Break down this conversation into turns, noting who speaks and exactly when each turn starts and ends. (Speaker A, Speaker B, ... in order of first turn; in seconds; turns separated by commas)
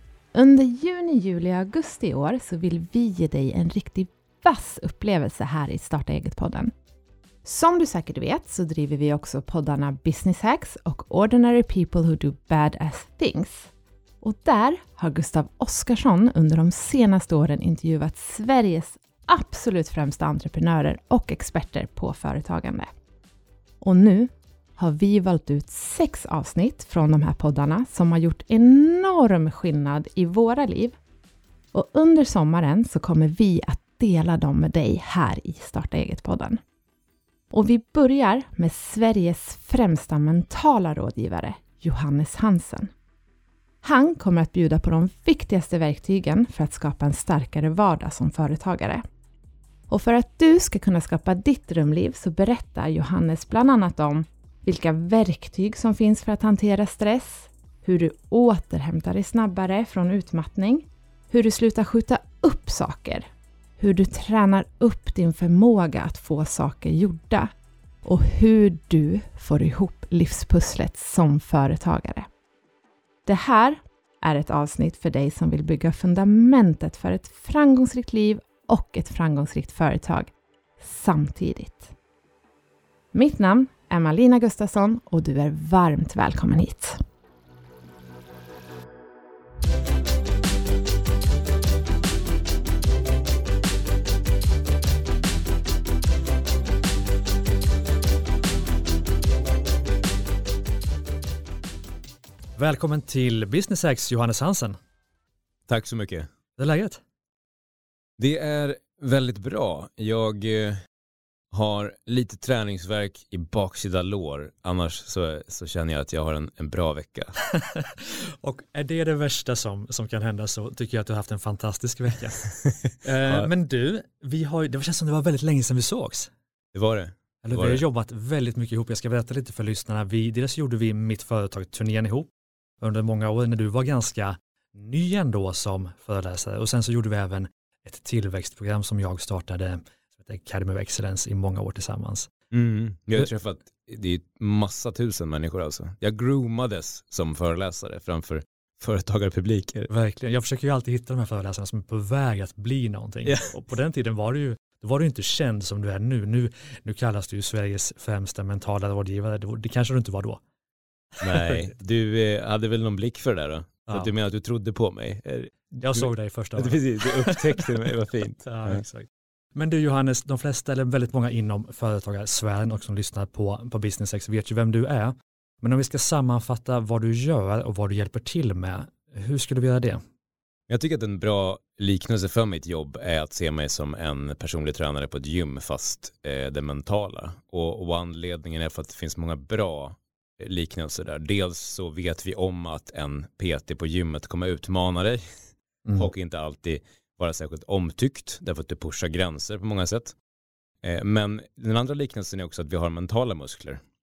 Speaker A: 0.3-6.7, Speaker A: 7.5-13.7, Speaker A: 14.2-22.9, Speaker A: 23.8-31.0, Speaker A: 31.7-36.6, Speaker A: 37.5-42.9, Speaker A: 43.8-49.0, Speaker A: 49.9-63.3, Speaker A: 63.8-67.5, Speaker A: 68.0-72.3, Speaker A: 73.3-81.9, Speaker A: 83.1-87.0, Speaker B: 102.6-104.8, Speaker C: 105.7-106.3, Speaker B: 106.6-107.0, Speaker C: 108.2-110.8, Speaker C: 111.5-117.3, Speaker B: 117.5-122.4, Speaker B: 123.0-126.3, Speaker C: 123.2-123.5, Speaker C: 126.7-127.8, Speaker B: 127.4-132.3, Speaker B: 132.8-142.3, Speaker C: 142.5-149.9, Speaker B: 149.9-160.4, Speaker C: 153.3-153.5, Speaker B: 161.2-161.7, Speaker C: 161.2-168.8, Speaker B: 165.8-167.9, Speaker B: 168.4-180.0, Speaker C: 180.7-195.2, Speaker C: 195.9-200.2, Speaker C: 200.8-203.8